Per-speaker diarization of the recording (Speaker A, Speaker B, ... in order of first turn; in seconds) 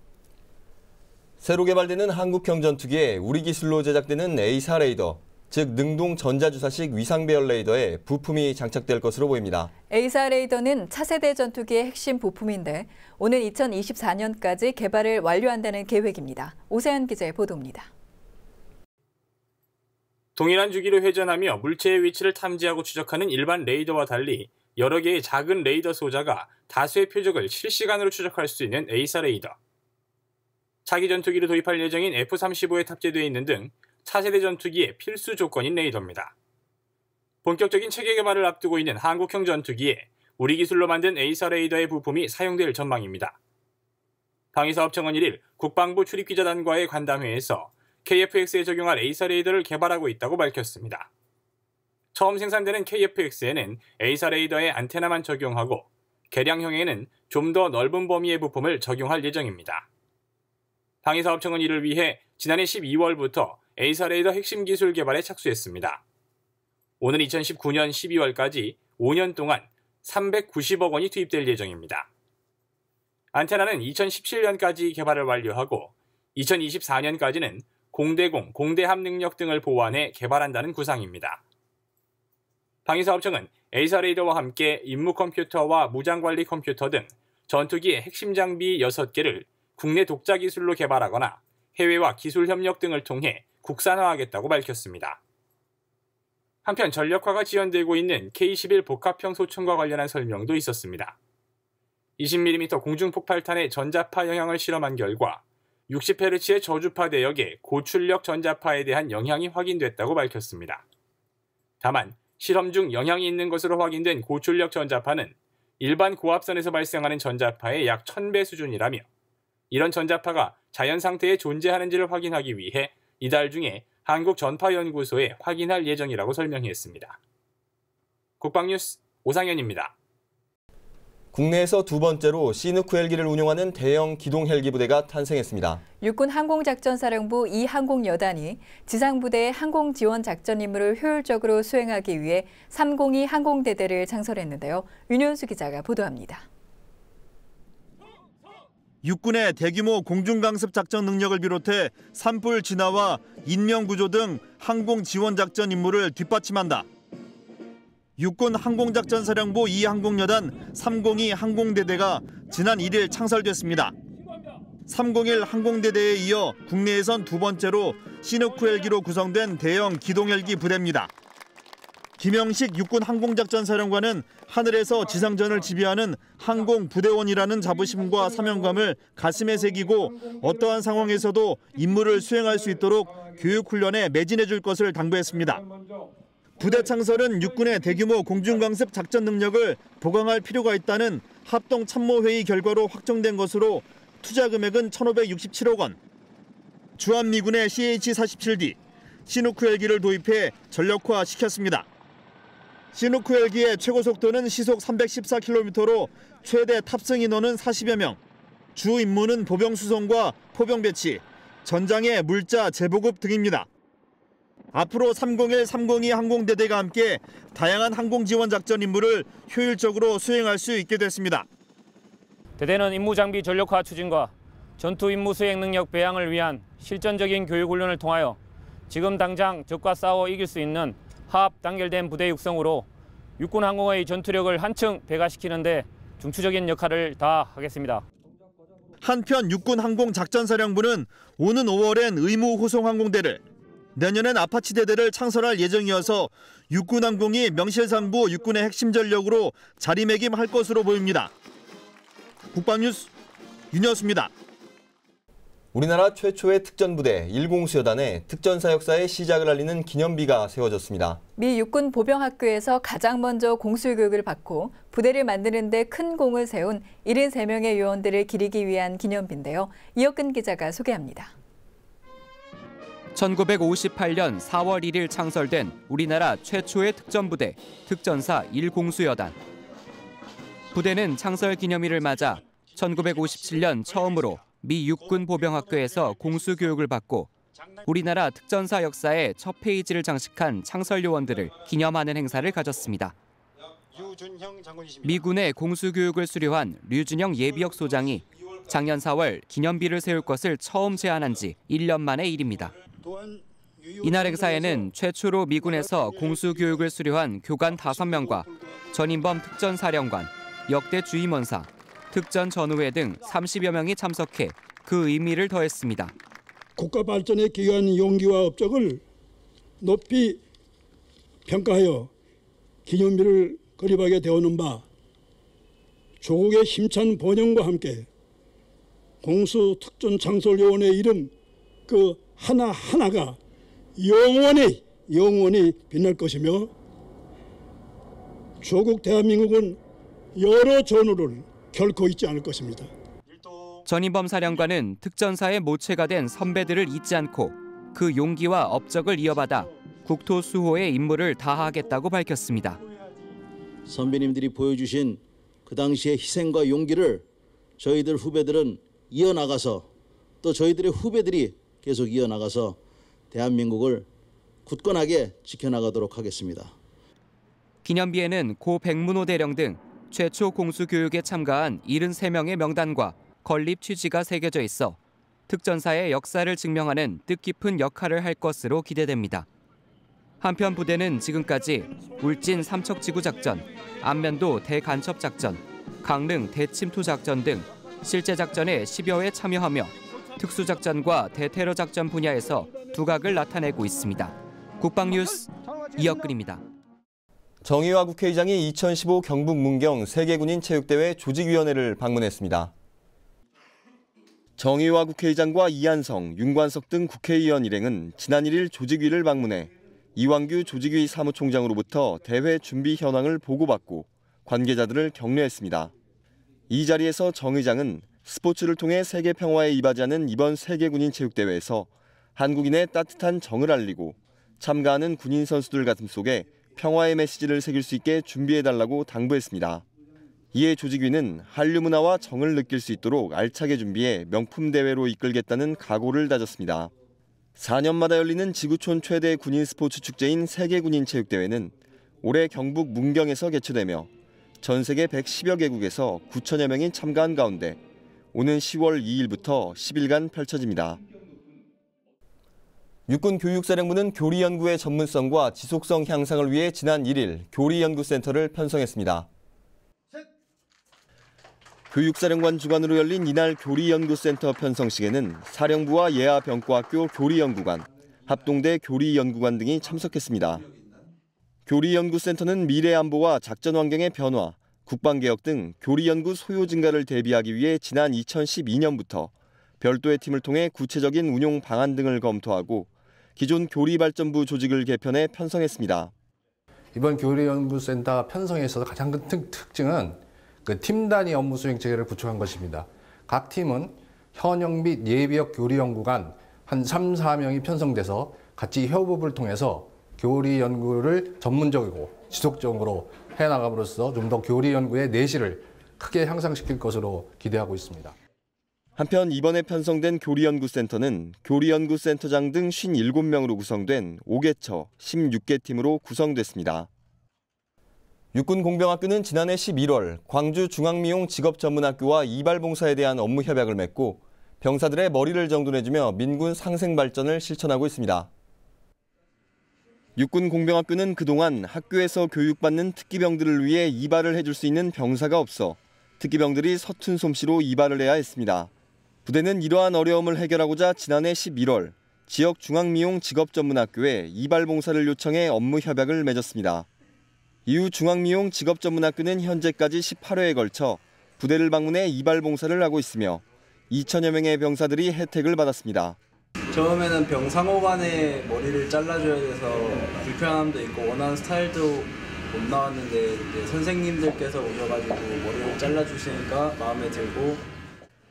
Speaker A: 1.4-9.7, 131.3-135.8, 255.7-261.2, 397.6-402.7, 404.6-415.9, 416.7-429.8, 430.5-436.9, 437.6-444.1, 444.6-447.8, 448.3-451.0, 453.1-459.3, 461.9-470.6, 471.7-486.1, 509.0-516.9, 518.3-528.3, 530.1-538.7, 539.2-546.9, 547.6-556.2
Speaker B: 9.9-17.9, 136.0-146.4, 261.4-271.3
Speaker C: 20.4-29.5, 30.9-36.3, 37.4-43.3, 44.5-51.1, 52.1-59.8, 61.0-66.0, 67.0-72.1, 73.3-81.4, 82.9-95.2, 96.6-101.1, 102.2-110.8, 111.8-119.0, 119.7-127.2, 128.4-129.9
Speaker D: 149.0-156.8, 158.2-163.9, 164.9-171.1, 172.2-185.6, 186.6-196.0, 197.0-201.8, 202.9-208.2, 208.8-213.7, 214.7-221.4, 239.0-243.4, 243.9-251.3, 252.5-253.1, 253.7-254.3
Speaker E: 222.6-224.3, 224.8-228.3, 228.9-232.8, 233.4-238.0
Speaker F: 273.1-279.4, 280.7-287.3, 287.9-293.1, 295.0-302.7, 304.0-316.1, 343.8-352.8, 367.8-379.5, 380.4-396.6
Speaker G: 303.0-304.8, 316.8-319.0, 319.8-320.4, 321.4-322.1, 322.9-324.8, 326.2-328.1, 329.2-331.3, 331.9-333.4, 334.0-336.7, 338.6-339.8, 340.4-342.9
Speaker H: 353.9-357.2, 357.8-359.9, 360.4-362.8, 363.3-364.1, 364.6-366.7
Speaker I: 486.9-508.1
Speaker J: 556.7-567.6